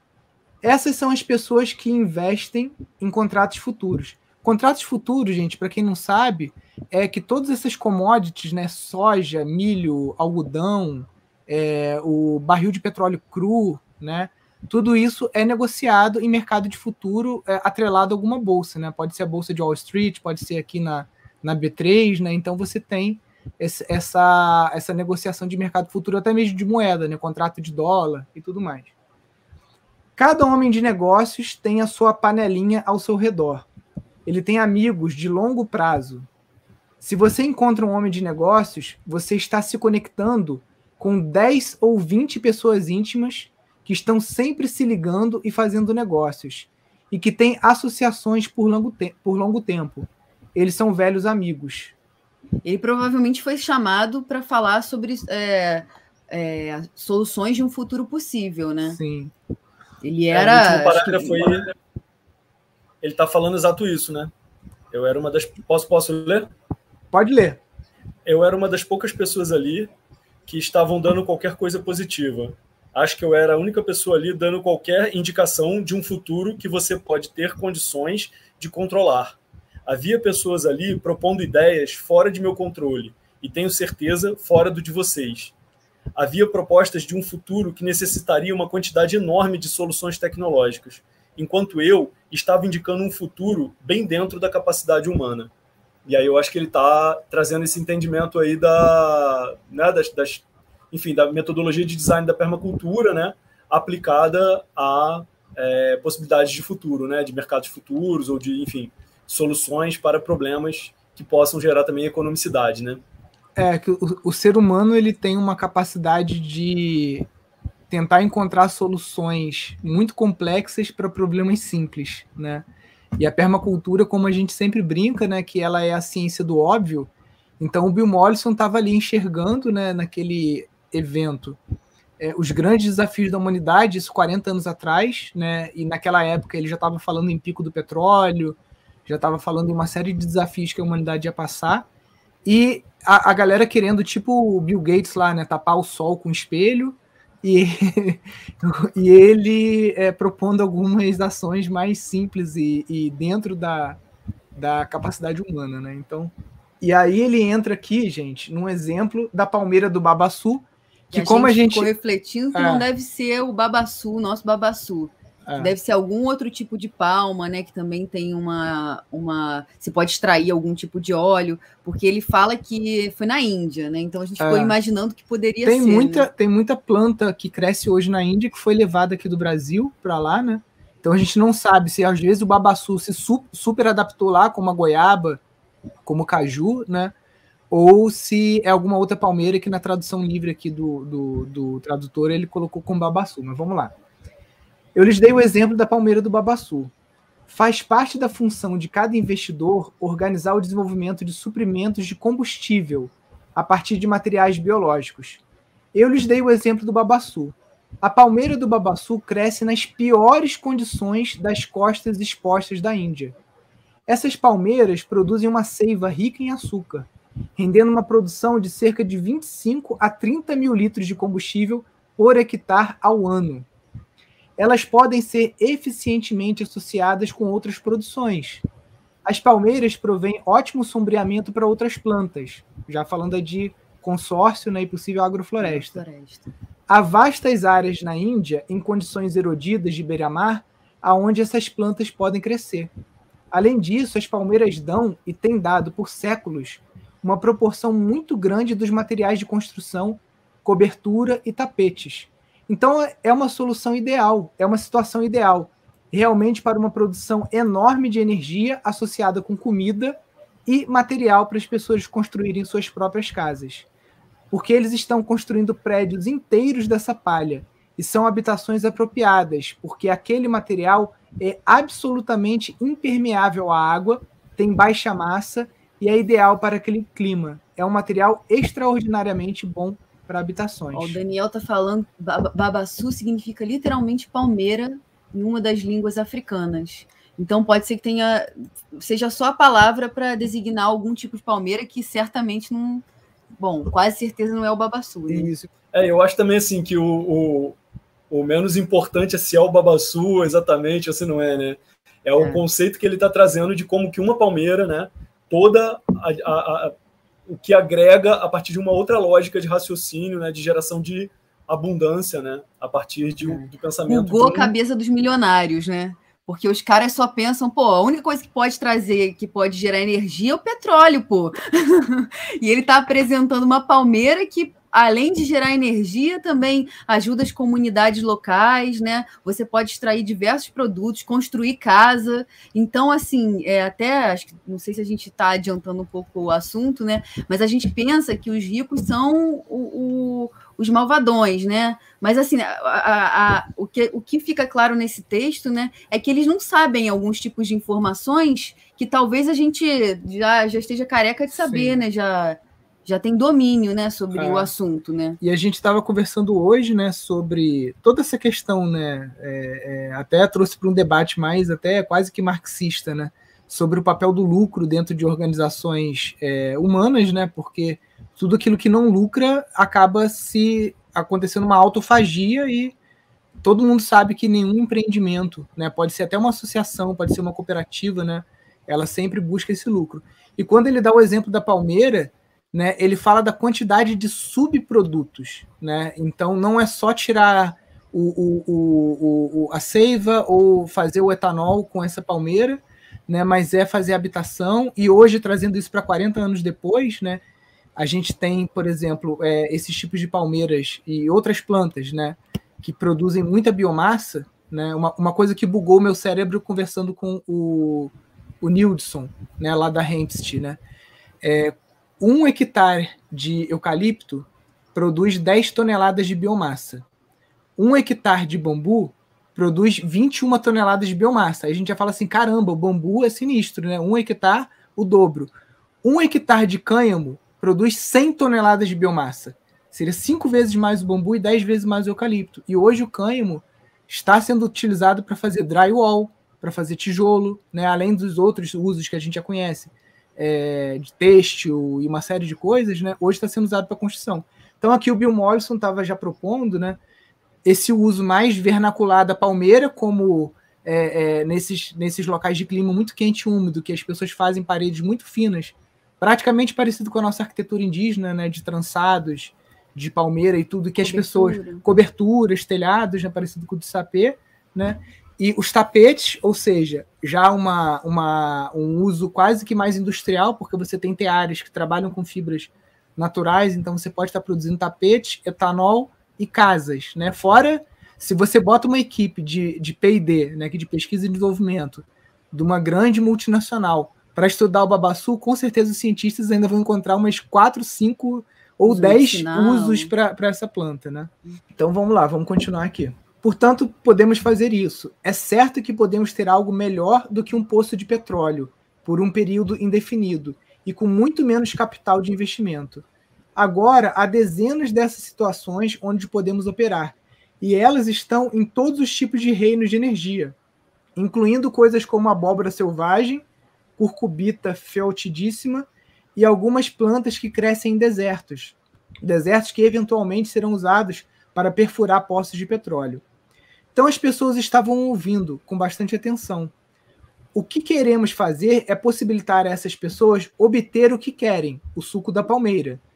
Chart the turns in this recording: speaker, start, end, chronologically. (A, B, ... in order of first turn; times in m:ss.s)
0:00.6-0:28.9 A
0:30.2-0:33.7 A
0:34.2-0:36.3 A
0:37.0-0:51.9 A
0:52.6-0:59.0 B
0:58.9-0:59.3 A
1:00.0-1:01.7 B
1:00.3-1:01.7 C
1:03.0-1:04.3 C
1:04.9-1:06.5 C
1:07.1-1:07.6 A
1:08.2-1:09.9 C
1:10.4-1:25.5 C
1:26.2-1:35.5 C
1:36.0-1:53.0 C
1:53.6-1:57.3 A
1:57.9-2:02.6 A
2:03.2-2:11.6 A
2:12.2-2:21.9 A
2:22.4-2:34.0 A
2:34.5-2:41.9 A
2:41.1-2:56.3 B
2:42.5-2:42.8 A
2:45.5-2:45.7 A
2:54.4-2:54.8 A
2:55.6-3:05.4 A
3:06.0-3:07.1 A
3:07.7-3:13.9 A
3:14.9-3:16.9 A
3:17.5-3:25.4 A
3:25.9-3:33.4 A
3:34.1-3:43.7 A
3:44.6-3:48.6 A
3:49.2-3:56.0 A
3:55.6-3:56.5 B
3:56.9-4:02.9 A
4:03.5-4:23.9 A
4:24.5-4:41.2 A
4:40.9-4:53.0 B
4:53.6-4:55.5 B
4:55.3-4:55.7 A
4:55.9-4:57.8 C
4:58.3-5:06.9 C
5:07.5-5:14.7 C
5:13.4-5:55.4 B
5:51.5-5:52.0 A
5:54.3-5:54.7 A
5:55.4-6:12.9 A
6:13.6-6:37.4 A
6:38.0-6:50.8 A
6:51.4-6:57.0 A
6:57.8-7:05.5 A
7:06.0-7:27.0 A
7:27.6-8:23.0 A
7:41.0-7:41.8 B
8:08.8-8:10.1 B
8:23.6-8:30.6 A
8:31.2-8:33.4 A
8:34.0-8:43.2 A
8:43.9-8:46.7 A
8:47.5-8:53.0 A